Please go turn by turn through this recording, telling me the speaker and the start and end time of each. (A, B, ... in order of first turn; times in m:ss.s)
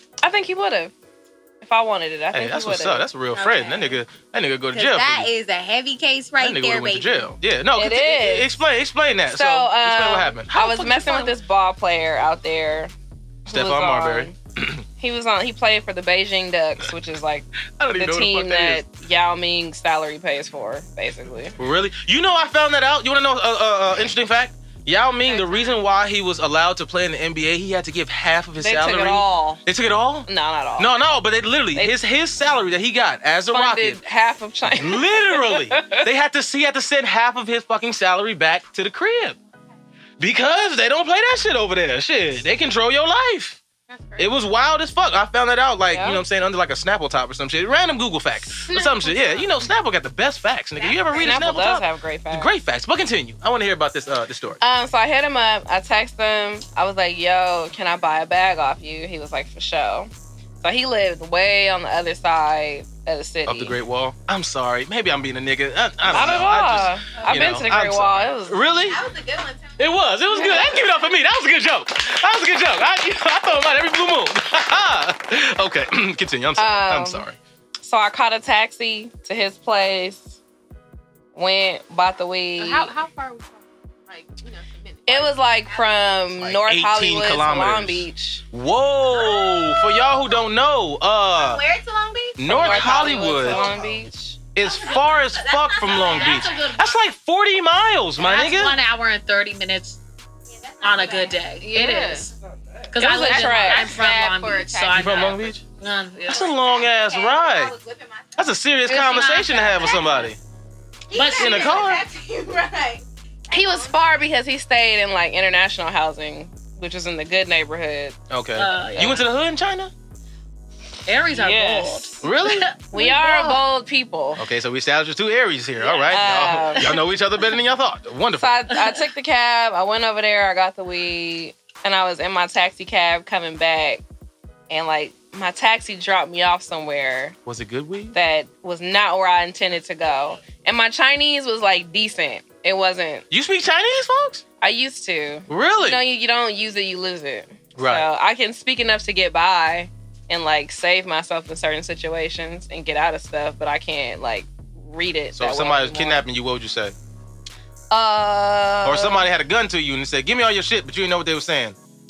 0:00.2-0:00.9 A
0:01.6-0:03.1 A
0:02.3-0:05.3 B
0:03.4-0:04.0 C
0:04.7-0:07.3 C
0:06.4-0:11.3 B
0:07.8-0:08.6 A
0:09.3-0:12.9 A
0:13.5-0:14.4 A
0:13.5-0:14.8 B
0:15.0-0:21.6 A
0:17.8-0:18.8 B
0:21.6-0:34.0 B
0:25.2-0:25.8 D
0:28.6-0:29.6 A
0:30.3-0:31.0 A
0:33.5-0:36.0 A
0:34.7-0:39.4 B
0:40.2-0:43.6 B
0:43.9-0:44.3 D
0:44.2-0:54.6 B
0:45.9-0:46.2 A
0:48.6-0:49.6 D
0:50.8-0:51.2 C
0:51.2-0:52.6 A
0:54.6-1:00.1 A
1:00.6-1:03.8 A
1:03.5-1:09.0 B
1:06.1-1:08.6 A
1:08.8-1:10.0 C
1:09.8-1:17.4 B
1:10.3-1:10.8 A
1:10.5-1:10.9 C
1:16.6-1:17.3 A
1:17.8-1:20.4 A
1:21.4-1:22.9 A
1:22.6-1:25.4 D
1:25.1-1:28.4 A
1:25.7-1:26.3 C
1:26.4-1:31.6 B
1:29.1-1:30.4 C
1:31.3-1:34.0 C
1:32.4-1:33.7 B
1:32.4-1:34.4 A
1:34.6-1:38.8 B
1:34.6-1:37.0 C
1:35.8-1:36.8 E
1:38.2-1:40.0 E
1:40.5-1:41.5 C
1:40.8-1:42.3 E
1:41.6-1:42.3 D
1:42.9-1:46.5 E
1:43.0-1:43.9 A
1:43.0-1:45.5 D
1:44.9-1:45.6 B
1:46.3-1:47.8 B
1:46.3-1:48.5 C
1:48.4-1:50.4 B
1:48.9-1:50.2 E
1:49.7-1:50.2 C
1:51.1-1:54.3 C
1:51.1-1:51.9 E
1:51.3-1:52.0 B
1:53.5-1:58.2 A
1:58.3-1:59.9 B
1:58.6-1:59.3 E
2:01.1-2:03.6 E
2:01.3-2:02.2 A
2:02.2-2:02.7 B
2:02.9-2:04.4 A
2:04.4-2:08.6 B
2:05.8-2:07.0 E
2:06.1-2:06.9 A
2:08.3-2:14.0 A
2:08.7-2:09.0 E
2:14.7-2:17.4 A
2:17.5-2:18.2 B
2:18.1-2:23.2 A
2:23.3-2:24.4 B
2:24.6-2:36.3 A
2:25.5-2:26.0 B
2:27.8-2:28.1 B
2:35.3-2:37.0 B
2:37.9-2:39.3 A
2:38.8-2:41.8 B